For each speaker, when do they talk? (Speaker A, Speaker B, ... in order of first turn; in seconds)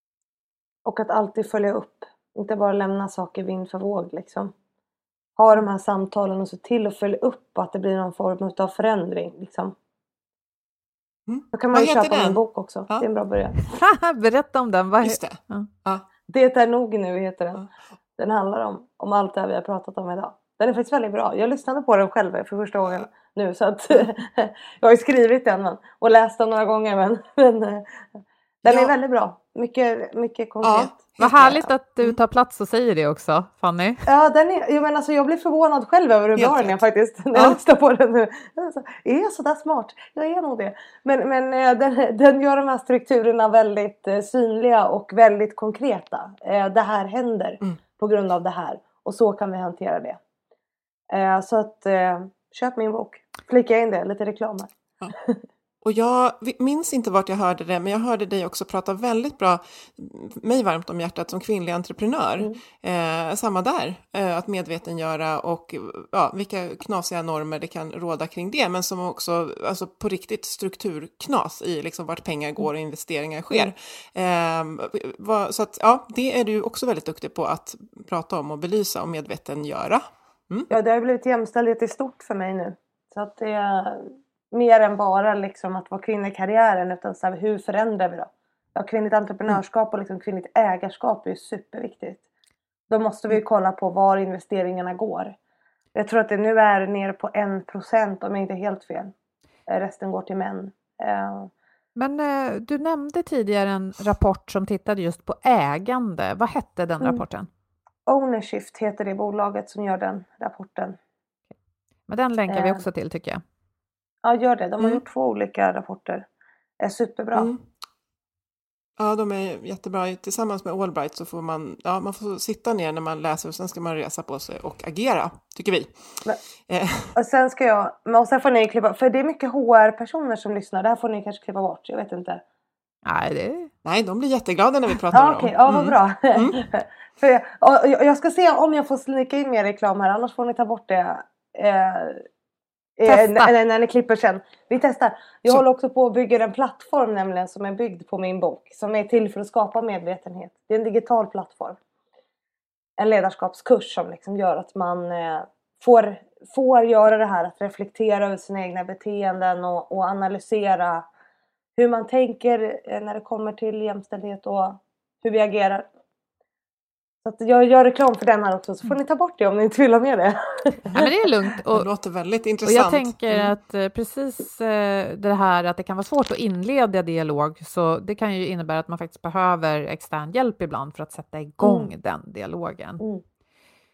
Speaker A: 0.8-4.5, 5.4-9.8, 11.5-13.6, 16.3-17.7, 18.2-27.9, 28.6-31.0, 34.1-50.2, 51.1-55.4, 80.7-92.2, 92.9-95.4, 96.0-99.1, 99.7-101.5, 108.1-111.0, 112.5-112.8, 114.2-116.3, 116.8-117.5, 127.2-132.4, 135.1-142.2, 143.0-151.8, 153.0-161.1, 161.8-165.9, 167.2-171.0, 181.6-181.9
Speaker B: 11.3-13.1, 15.0-16.1, 28.6-28.9, 30.6-32.2, 36.4-36.8, 37.3-37.6, 55.8-80.7, 117.3-117.6, 119.0-125.9, 126.7-127.1, 133.8-136.6, 171.7-173.5
Speaker C: 13.7-15.7, 31.2-34.0, 102.0-107.5, 112.1-113.4, 133.1-133.7, 143.1-143.5, 170.9-171.9, 172.7-183.0